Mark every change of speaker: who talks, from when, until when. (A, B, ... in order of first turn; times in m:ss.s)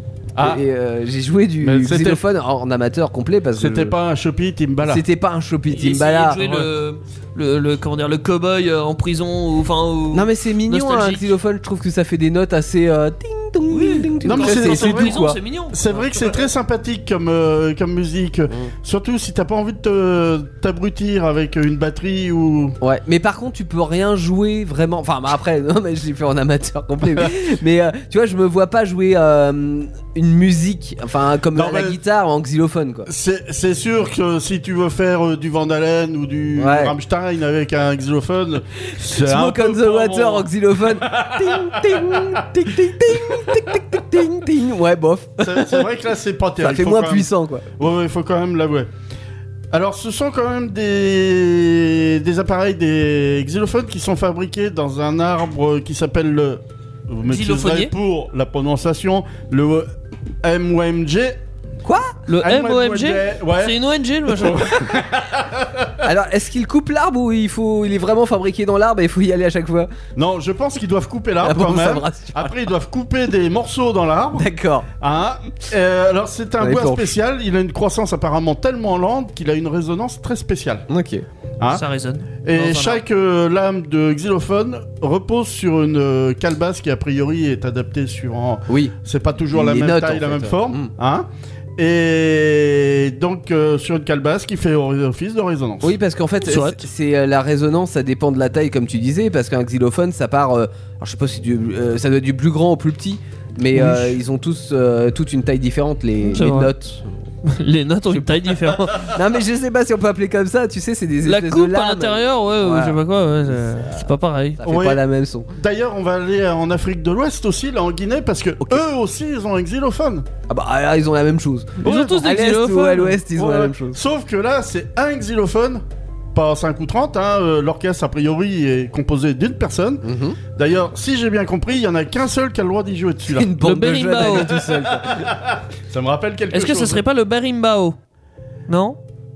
0:00.3-0:00.6 A
0:00.4-0:03.9 B
0:01.6-0:02.2 A
0:03.6-0:05.0 A
0:04.8-0:06.4 B
0:05.7-0:11.3 C
0:06.4-0:06.7 A
0:10.1-0:15.4 B
0:13.7-0:16.4 C
0:14.2-0:22.8 A
0:22.8-0:33.1 B
0:31.5-0:32.0 A
0:33.1-0:42.4 A
0:36.6-0:36.9 B
0:38.8-0:45.8 B
0:43.1-0:43.7 A
0:45.4-0:48.9 A
0:46.6-0:47.6 B
0:49.7-1:01.4 A
0:57.3-0:57.9 C
1:01.8-1:02.2 B
1:02.3-1:04.8 C
1:02.4-1:03.8 A
1:04.3-1:06.0 A
1:06.0-1:09.9 B
1:10.2-1:14.5 A
1:11.4-1:12.6 B
1:14.3-1:14.9 B
1:15.0-1:20.8 A
1:16.6-1:17.1 B
1:20.9-1:21.2 B
1:21.7-1:23.0 C
1:22.4-1:36.0 A
1:28.7-1:28.9 B
1:29.5-1:30.9 B
1:35.8-1:47.2 B
1:36.4-1:36.8 C
1:43.7-1:44.2 C
1:46.2-1:46.7 C
1:47.4-1:49.1 C
1:48.1-1:53.0 B
1:51.2-1:54.6 C
1:53.6-1:54.1 B
1:54.6-1:55.5 B
1:54.6-2:00.3 A
2:00.5-2:04.0 B
2:01.8-2:03.2 C
2:01.8-2:02.2 A
2:03.3-2:13.5 A
2:10.0-2:10.4 B
2:13.3-2:15.2 B
2:13.6-2:14.7 C
2:14.5-2:17.0 A
2:16.5-2:18.0 C
2:18.7-2:19.0 C